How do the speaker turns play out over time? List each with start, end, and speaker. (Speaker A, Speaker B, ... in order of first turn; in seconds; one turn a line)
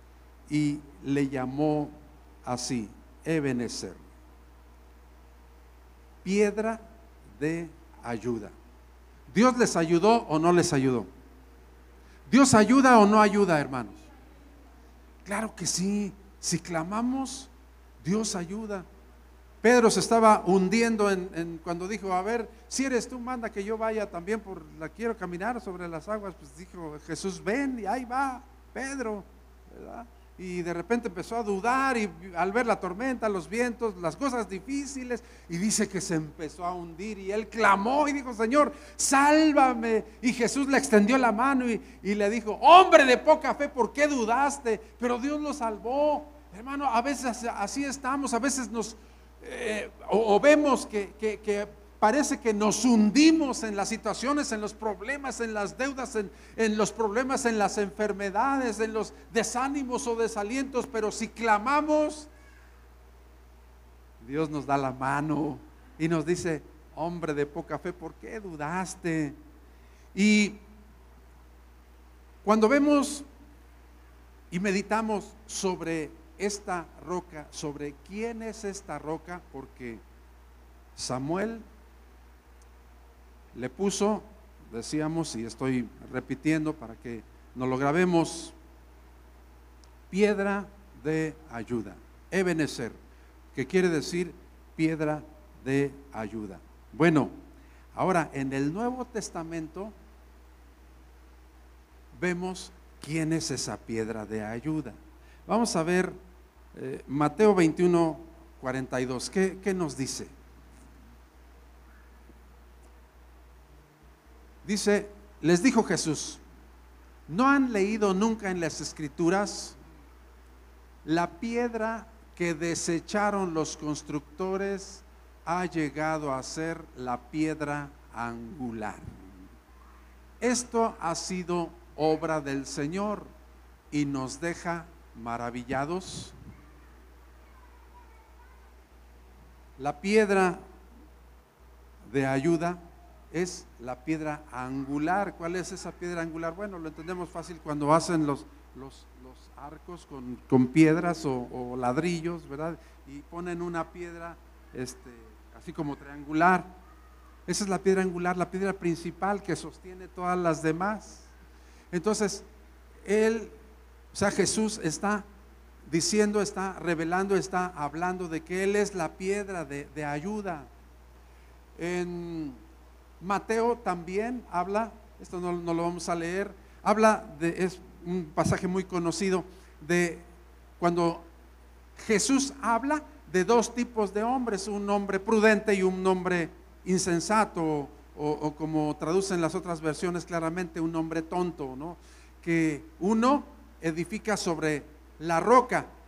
Speaker A: 0.5-4.0
Speaker A: 6.2-8.6
Speaker A: 9.3-11.1
Speaker A: 12.3-14.0
Speaker A: 15.2-18.9
Speaker A: 19.6-62.3
Speaker A: 64.2-69.4
Speaker A: 70.1-70.6
Speaker A: 72.4-73.2
Speaker A: 74.5-80.0
Speaker A: 81.0-81.6
Speaker A: 83.5-88.5
Speaker A: 90.1-93.0
Speaker A: 93.5-97.3
Speaker A: 97.9-99.9
Speaker A: 102.1-106.2
Speaker A: 106.7-110.3
Speaker A: 114.6-116.4
Speaker A: 117.3-119.8
Speaker A: 121.0-129.1
Speaker A: 130.4-133.3
Speaker A: 133.9-136.3
Speaker A: 139.8-140.6
Speaker A: 142.1-156.7
Speaker A: 157.5-161.3
Speaker A: 161.9-162.4
Speaker A: 163.0-163.6
Speaker A: 164.1-165.2
Speaker A: 165.8-170.7
Speaker A: 171.8-172.6
Speaker A: 173.2-180.3
Speaker A: 180.8-181.3
Speaker A: 182.0-195.9